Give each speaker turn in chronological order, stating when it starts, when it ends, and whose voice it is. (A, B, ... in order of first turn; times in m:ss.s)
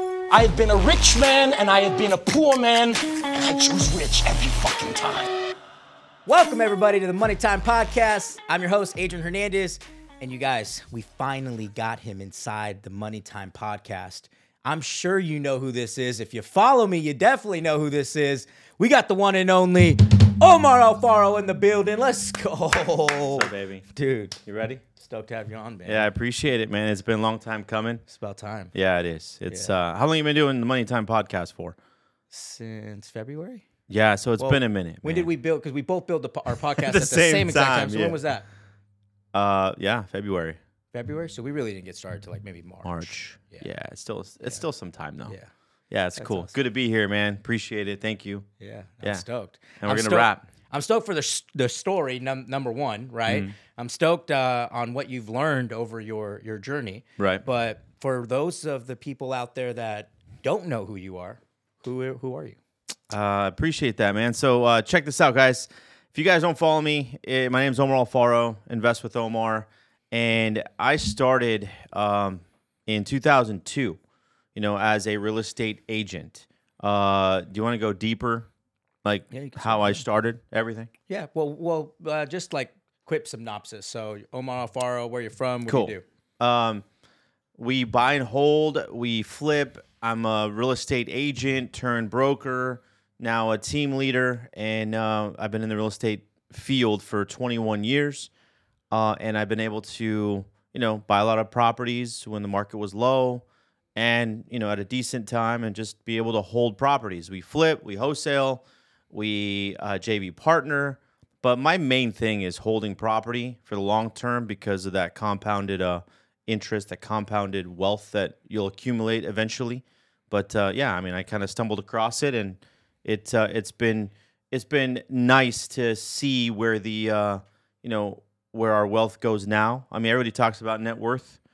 0:00.3-0:05.3 A
0:06.2-0:26.1 B
0:23.3-0:23.8 C
0:24.4-0:24.8 C
0:25.8-0:28.0 C
0:28.1-0:28.7 B
0:28.7-0:31.8 C
0:29.5-0:29.7 B
0:32.3-0:33.6 B
0:33.9-0:35.3 C
0:34.4-0:38.5 B
0:36.7-0:38.2 C
0:39.3-0:40.6 C
0:40.9-0:43.7 B
0:42.8-0:45.4 C
0:45.9-0:48.5 C
0:46.2-0:46.5 B
0:48.6-1:02.6 B
0:49.8-0:50.4 C
0:53.3-0:53.5 C
0:57.2-0:57.4 C
1:03.1-1:14.0 C
1:14.5-1:18.5 C
1:19.0-1:20.9 C
1:19.3-1:20.0 B
1:21.1-1:26.0 B
1:25.7-1:26.8 C
1:27.6-1:38.3 C
1:38.9-2:11.4 C